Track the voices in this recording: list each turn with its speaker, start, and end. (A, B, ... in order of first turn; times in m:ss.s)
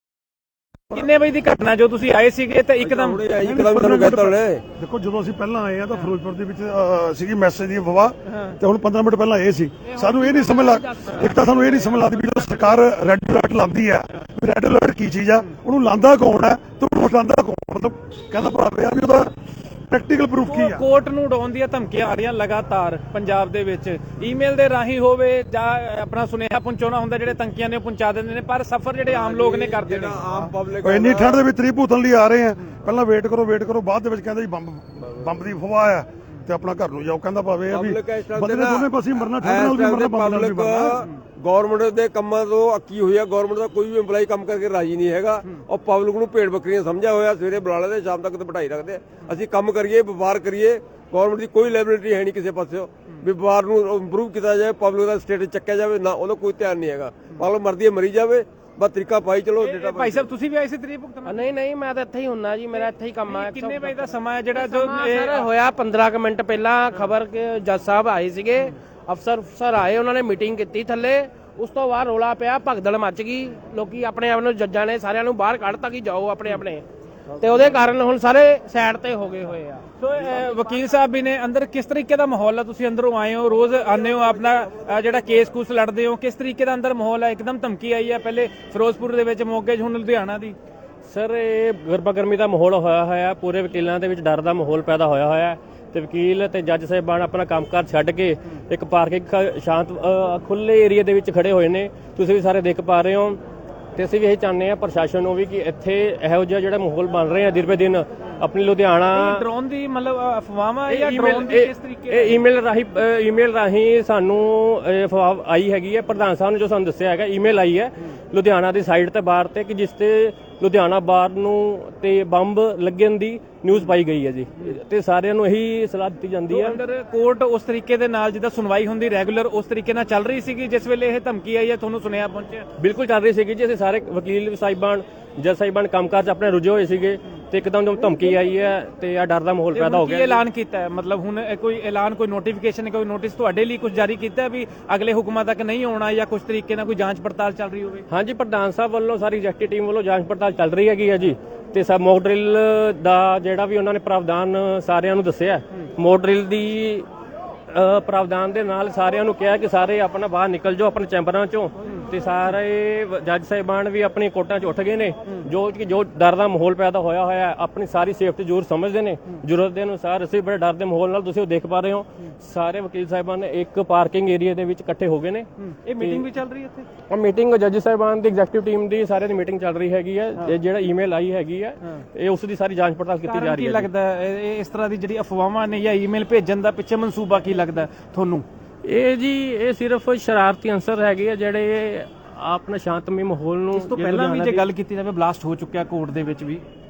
0:00.9-0:03.2 A
0:02.8-0:04.6 B
0:03.4-0:19.3 C
0:08.3-0:08.6 A
0:09.8-0:12.0 D
0:19.9-0:20.8 C
0:20.5-0:30.3 A
0:29.1-0:31.5 B
0:30.3-0:41.0 C
0:37.7-1:00.3 B
0:59.6-1:01.4 A
1:01.2-1:16.8 D
1:02.8-1:05.5 A
1:17.4-1:19.8 D
1:20.0-1:30.6 A
1:31.1-1:43.4 E
1:44.0-1:49.4 E
1:49.1-1:52.4 A
1:50.9-2:06.8 E
2:06.5-2:12.6 A
2:12.8-2:20.4 E
2:19.7-2:28.0 A
2:28.1-2:37.1 E
2:37.7-2:56.2 E
2:55.6-2:56.9 A
2:57.1-3:03.9 E
3:03.2-3:08.4 A
3:08.8-3:14.6 E
3:13.7-3:16.6 A